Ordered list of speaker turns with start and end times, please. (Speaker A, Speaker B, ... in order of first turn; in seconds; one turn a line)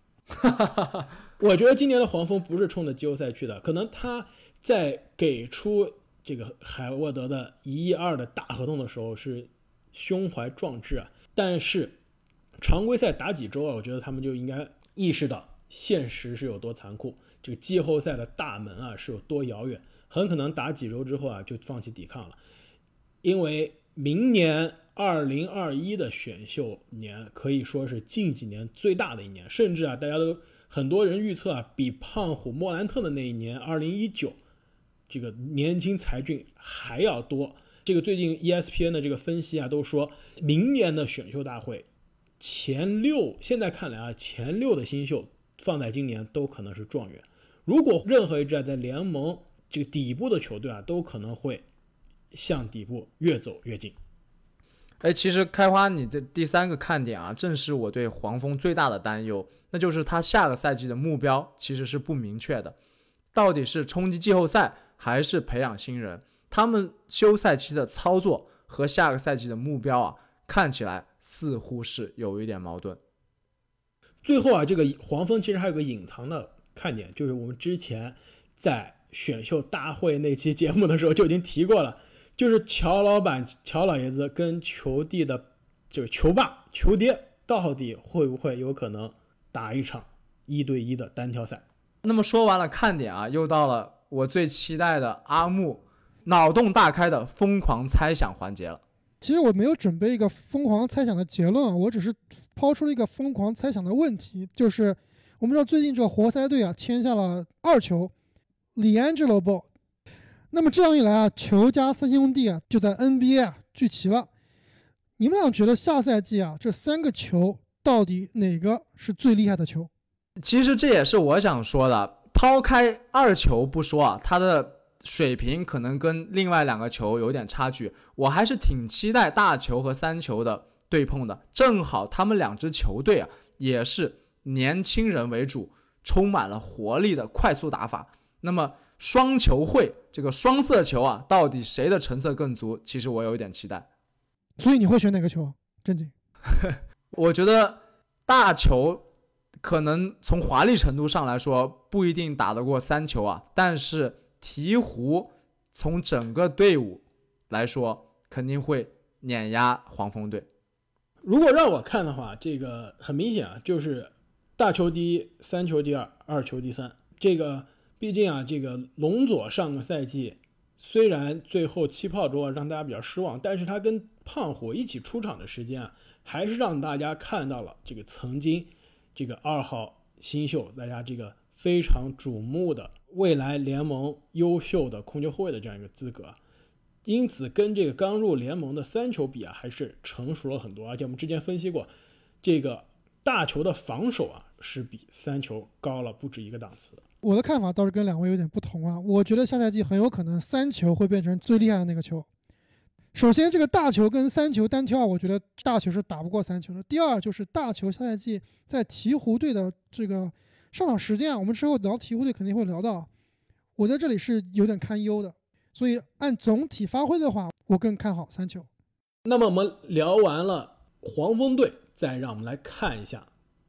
Speaker A: 1.4-12.0
Speaker A: 12.6-22.4
Speaker A: 23.2-34.4
Speaker A: 35.1-41.9
Speaker A: 42.4-51.6
Speaker A: 52.3-53.9
Speaker B: 55.0-62.8
Speaker B: 63.3-73.0
Speaker A: 74.2-91.6
Speaker B: 92.0-98.8
Speaker C: 99.2-108.1
Speaker C: 108.7-109.7
Speaker C: 110.5-114.3
Speaker C: 115.2-119.9
Speaker B: 120.4-143.9
Speaker C: 144.6-146.1
Speaker B: 146.5-149.0
Speaker B: 149.6-160.5
Speaker A: 161.2-186.4
Speaker A: 187.0-191.9
Speaker A: 192.4-197.0
Speaker C: 197.2-202.3
Speaker C: 203.1-213.1
Speaker C: 213.8-218.7
Speaker A: 219.2-223.3